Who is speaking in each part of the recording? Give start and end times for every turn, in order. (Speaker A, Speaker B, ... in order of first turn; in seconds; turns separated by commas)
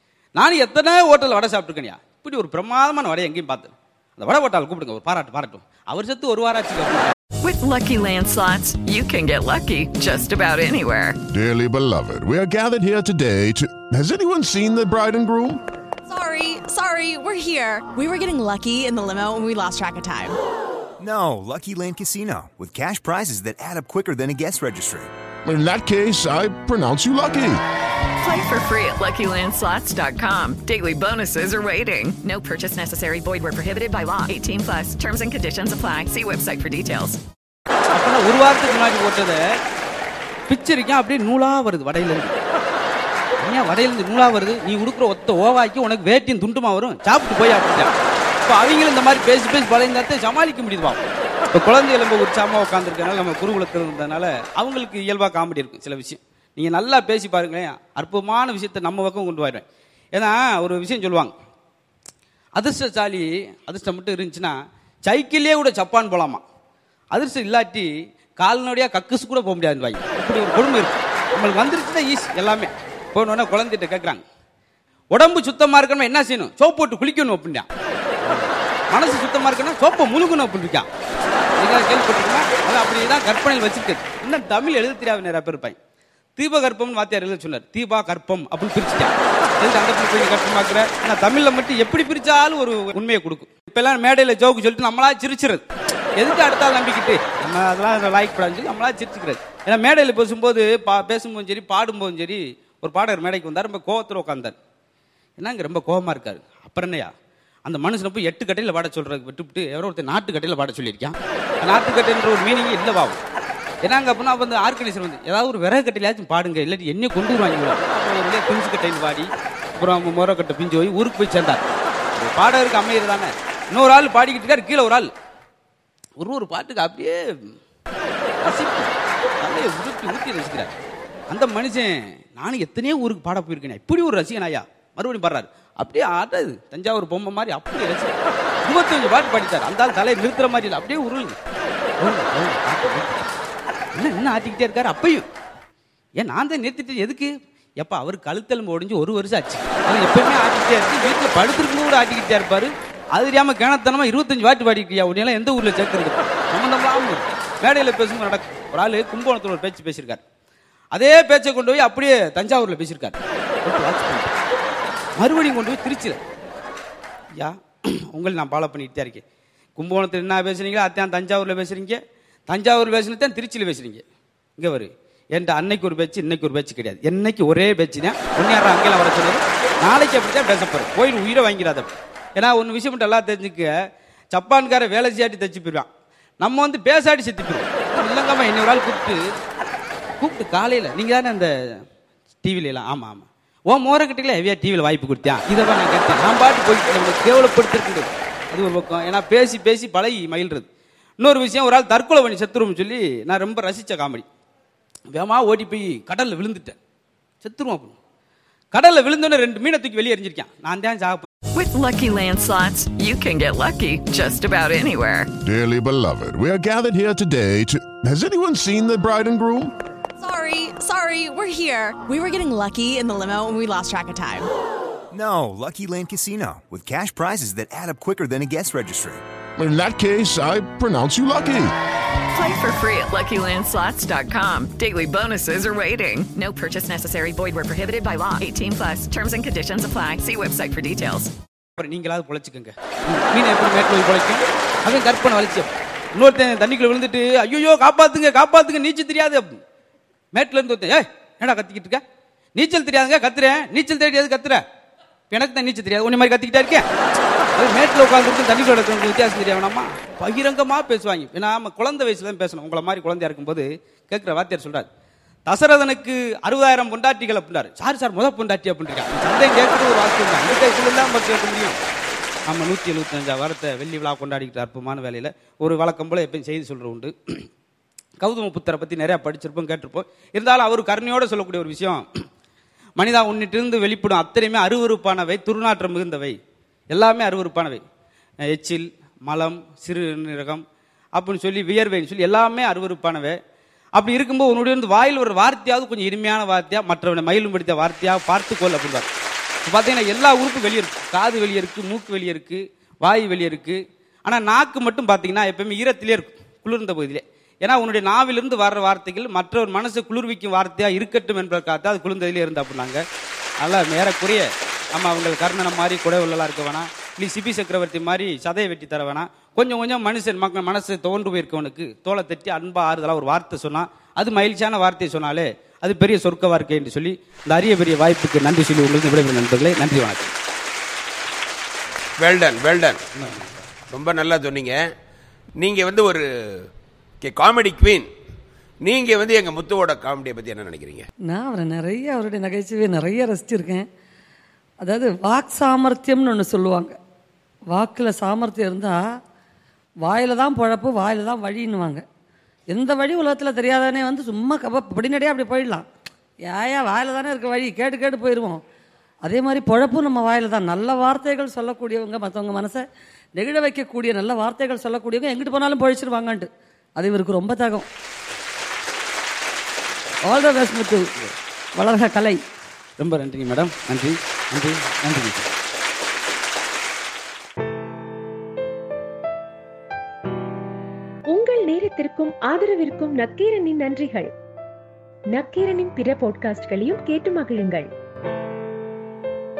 Speaker A: 0.4-7.2, Speaker B: 7.4-11.2, Speaker C: 11.3-15.6, Speaker D: 16.1-20.4, Speaker E: 21.0-25.1, Speaker C: 25.4-27.6, Speaker B: 28.2-37.2, Speaker A: 37.9-39.4, Speaker A: 40.5-42.3, Speaker A: 43.4-47.9, Speaker A: 48.5-51.0, Speaker A: 51.5-61.3, Speaker A: 62.6-66.4, Speaker A: 67.1-74.2, Speaker A: 75.1-77.7, Speaker A: 78.3-80.9, Speaker A: 81.6-85.8, Speaker A: 86.4-95.6, Speaker A: 96.2-104.5, Speaker A: 105.4-107.1, Speaker A: 107.7-113.2, Speaker A: 113.8-125.1, Speaker A: 126.2-127.3, Speaker A: 128.4-130.7, Speaker A: 131.3-141.4, Speaker A: 142.0-143.3, Speaker A: 143.9-145.3, Speaker A: 146.2-160.2, Speaker A: 160.9-164.3, Speaker A: 165.2-166.2, Speaker A: 168.1-169.2, Speaker A: 169.8-174.0, Speaker A: 174.6-183.7, Speaker A: 184.3-185.9, Speaker A: 186.4-189.2, Speaker A: 190.2-191.5, Speaker A: 192.4-200.7, Speaker A: 201.2-204.2, Speaker A: 205.1-206.8, Speaker A: 207.4-208.0, Speaker A: 208.7-211.3, Speaker B: 211.6-215.3, Speaker C: 215.4-219.7, Speaker D: 220.2-224.5, Speaker E: 225.1-229.2, Speaker C: 229.6-231.7, Speaker B: 232.3-241.3, Speaker A: 241.8-249.6, Speaker A: 250.3-252.0, Speaker A: 252.6-254.6, Speaker A: 255.3-256.9, Speaker A: 257.6-264.9, Speaker A: 265.5-271.8, Speaker A: 272.5-277.1, Speaker A: 278.2-282.1, Speaker A: 283.0-286.4, Speaker A: 286.9-287.8, Speaker A: 288.5-290.6, Speaker A: 291.1-293.4, Speaker A: 294.0-299.1, Speaker A: 299.7-313.0, Speaker A: 313.6-330.3, Speaker F: 332.2-333.1, Speaker F: 333.9-334.9, Speaker F: 335.6-336.3, Speaker F: 337.2-338.1, Speaker F: 338.8-341.1, Speaker G: 341.3-343.9, Speaker G: 344.8-347.0, Speaker G: 347.7-349.0, Speaker G: 350.0-352.0, Speaker G: 352.7-355.9, Speaker G: 356.4-358.6, Speaker G: 359.2-362.8, Speaker G: 363.4-367.9, Speaker G: 370.3-372.4, Speaker A: 373.0-375.5, Speaker H: 381.3-384.3, Speaker H: 385.3-387.9